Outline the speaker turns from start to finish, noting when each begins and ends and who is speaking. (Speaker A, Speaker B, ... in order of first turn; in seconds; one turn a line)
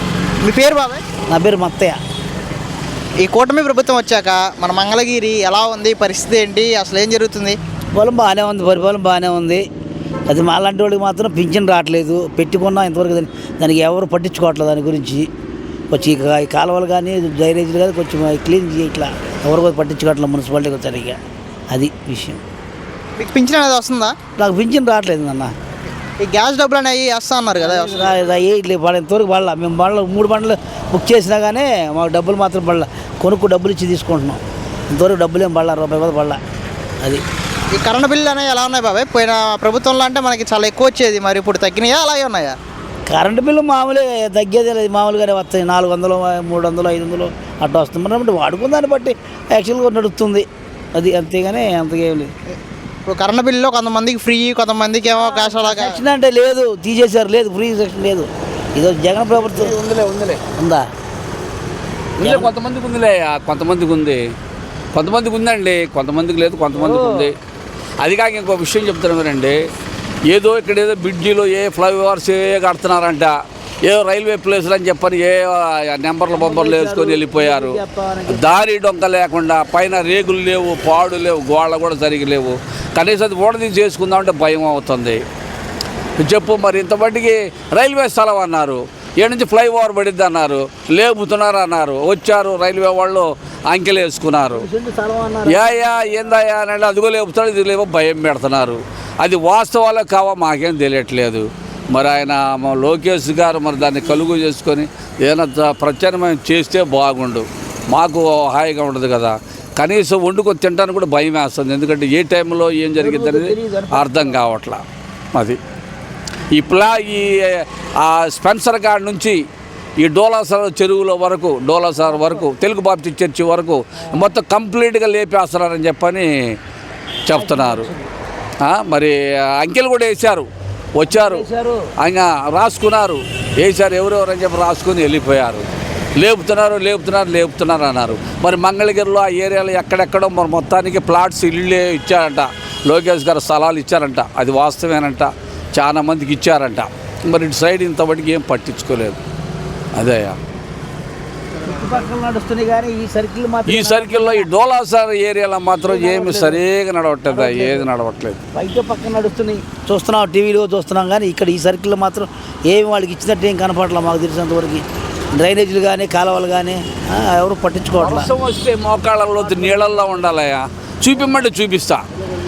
Speaker A: 0.4-1.0
Speaker B: 1.3-2.0
Speaker A: 3.2-7.6
Speaker B: 8.0-9.6
Speaker B: 10.3-15.3
Speaker B: 15.9-21.2
Speaker B: 21.7-22.4
Speaker A: 23.2-24.2
Speaker B: 24.4-25.5
Speaker A: 26.2-28.1
Speaker B: 27.6-34.4
Speaker B: 34.9-36.4
Speaker A: 37.8-42.6
Speaker B: 43.1-52.3
Speaker A: 52.5-56.0
Speaker B: 55.3-59.8
Speaker C: 59.5-60.4
Speaker B: 60.5-60.9
Speaker C: 62.2-64.2
Speaker B: 62.2-62.5
Speaker C: 64.9-67.3
Speaker B: 66.7-67.3
Speaker C: 68.0-69.6
Speaker C: 70.3-85.2
Speaker B: 76.3-78.6
Speaker C: 86.2-94.7
Speaker B: 94.5-95.8
Speaker C: 95.5-114.8
Speaker B: 113.0-114.4
Speaker C: 115.3-115.6
Speaker C: 116.5-119.4
Speaker C: 120.0-126.6
Speaker B: 122.1-122.4
Speaker C: 127.3-127.9
Speaker B: 127.3-128.1
Speaker C: 128.6-131.4
Speaker B: 131.1-131.9
Speaker C: 132.0-135.7
Speaker C: 136.2-149.2
Speaker C: 150.0-150.4
Speaker B: 151.6-154.5
Speaker C: 153.7-158.4
Speaker B: 155.9-156.6
Speaker B: 157.3-157.9
Speaker B: 158.5-164.8
Speaker B: 165.4-168.3
Speaker C: 168.0-172.0